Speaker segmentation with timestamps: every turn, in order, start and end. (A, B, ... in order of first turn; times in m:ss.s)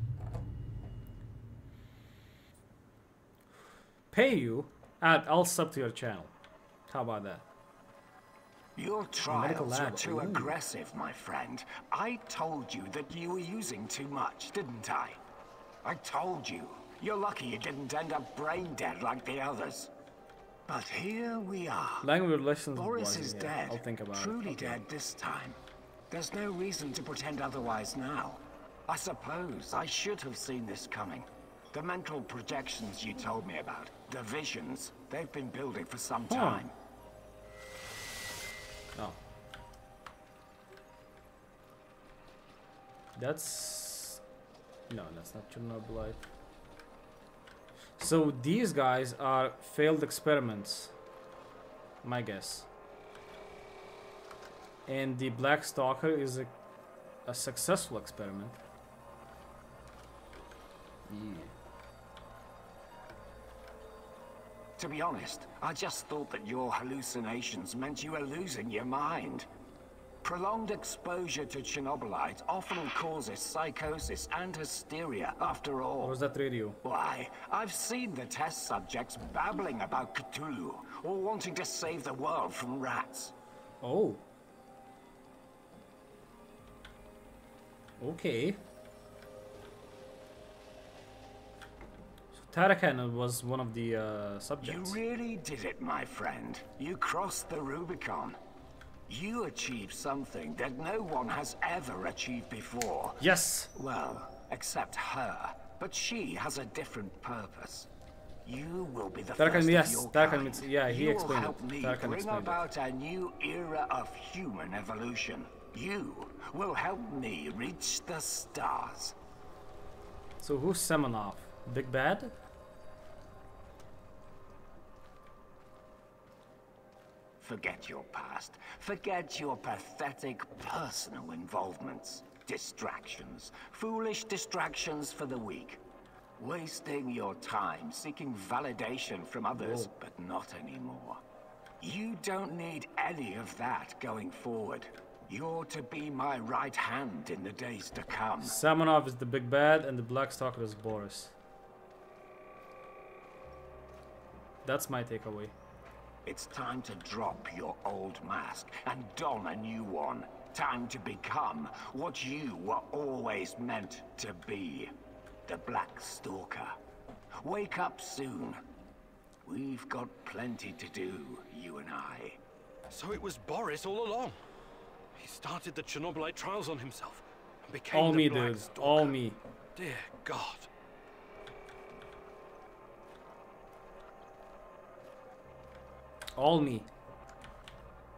0:04.1-0:06.3 A
0:06.9-0:07.4 A
0:08.8-0:15.2 B
0:09.2-0:10.6 A
0:15.8-0:19.9 B
0:20.7-0:22.1 B
0:22.0-0:24.8 A
0:22.7-0:25.6 B
0:26.1-0:36.7 B
0:36.3-0:36.7 A
0:38.9-0:39.2 A
0:43.2-0:44.2 A
0:44.9-0:46.2 A
0:48.0-0:50.9 A
0:52.0-0:52.7 A
0:54.9-0:56.5 A
0:57.2-0:58.6 A
1:01.1-1:01.5 A
1:04.8-1:09.5 B
1:10.2-1:16.2 B
1:16.0-1:16.8 A
1:16.8-1:23.3 B
1:23.8-1:24.2 A
1:28.0-1:28.6 A
1:32.3-1:35.0 A
1:34.6-1:38.4 B
1:39.1-1:43.2 B
1:43.2-1:43.7 A
1:43.8-1:47.9 B
1:48.4-1:59.2 B
1:49.4-1:52.6 A
2:00.4-2:02.3 A
2:07.4-2:15.8 B
2:16.4-2:21.2 B
2:19.5-2:19.9 A
2:21.8-2:28.6 B
2:28.4-2:31.3 A
2:34.6-2:35.5 A
2:36.2-2:44.9 B
2:45.5-2:46.8 B
2:47.4-2:48.6 B
2:49.4-2:52.4 B
2:52.9-2:54.4 C
2:55.2-2:59.2 C
2:57.9-2:59.4 A
2:59.8-3:00.7 C
3:06.4-3:06.9 A